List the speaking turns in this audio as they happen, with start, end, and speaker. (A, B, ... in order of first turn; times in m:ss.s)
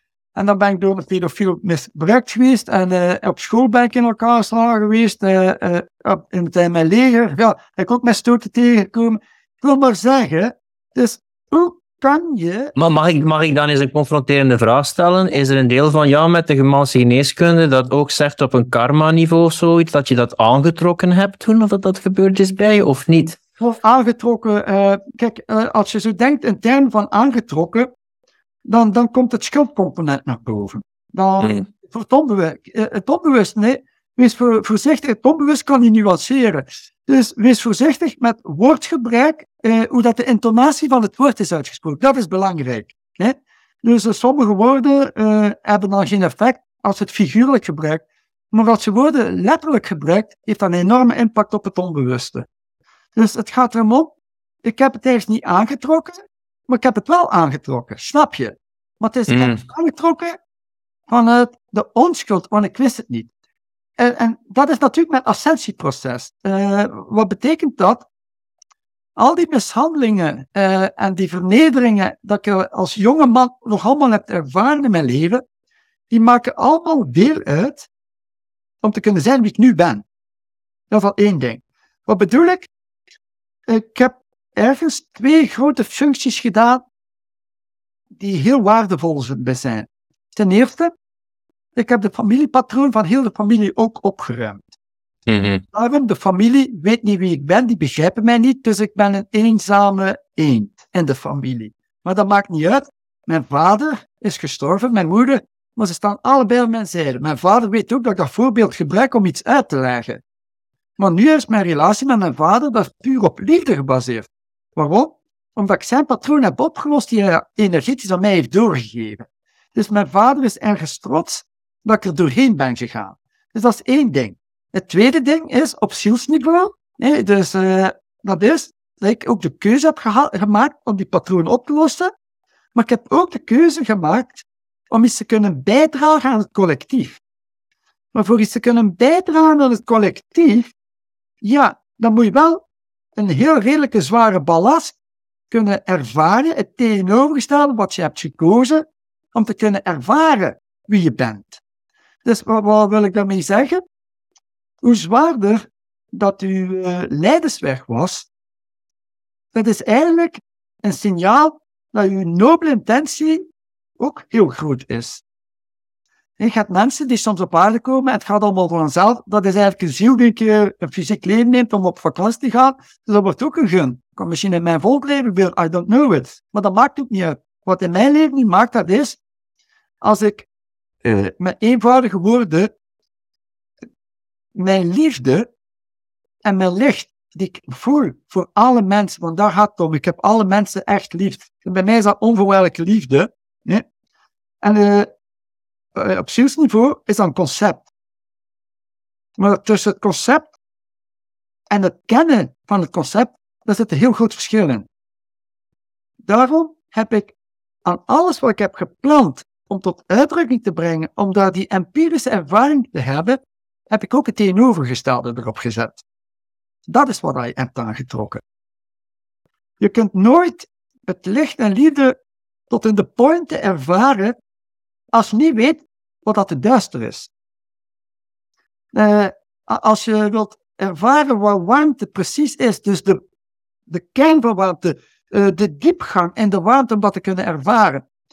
0:00.3-0:12.7 A
0:12.8-0:23.4 B
0:23.6-0:27.9 A
0:28.6-0:52.4 A
0:31.4-0:31.6 B
0:53.2-1:00.4 A
0:59.3-0:59.6 B
1:01.1-1:03.3 A
1:04.0-1:08.0 A
1:09.2-1:15.4 A
1:16.1-1:17.9 A
1:18.8-1:20.0 A
1:20.9-1:22.7 A
1:23.7-1:26.8 A
1:28.2-1:30.9 A
1:31.7-1:34.7 A
1:35.3-1:35.6 B
1:35.7-1:50.2 A
1:51.0-2:12.1 A
2:12.7-2:17.2 A
2:18.1-2:20.7 A
2:21.4-2:22.6 A
2:23.2-2:24.9 A
2:25.5-2:31.6 A
2:32.2-2:33.8 A
2:34.8-2:38.3 A
2:39.5-2:45.2 A
2:46.4-2:59.2 A
3:00.0-3:00.5 A
3:01.0-3:02.7 A
3:04.5-3:05.5 A
3:06.4-3:13.8 A
3:14.6-3:15.1 A
3:16.0-3:17.9 A
3:19.4-3:20.5 A
3:21.7-3:24.9 A
3:26.2-3:27.3 A
3:27.8-3:33.4 A
3:33.9-3:36.0 A
3:36.9-3:38.4 A
3:39.8-3:42.2 A
3:42.7-3:44.4 A
3:45.1-3:47.3 A
3:48.9-3:53.2 A
3:53.9-3:58.0 A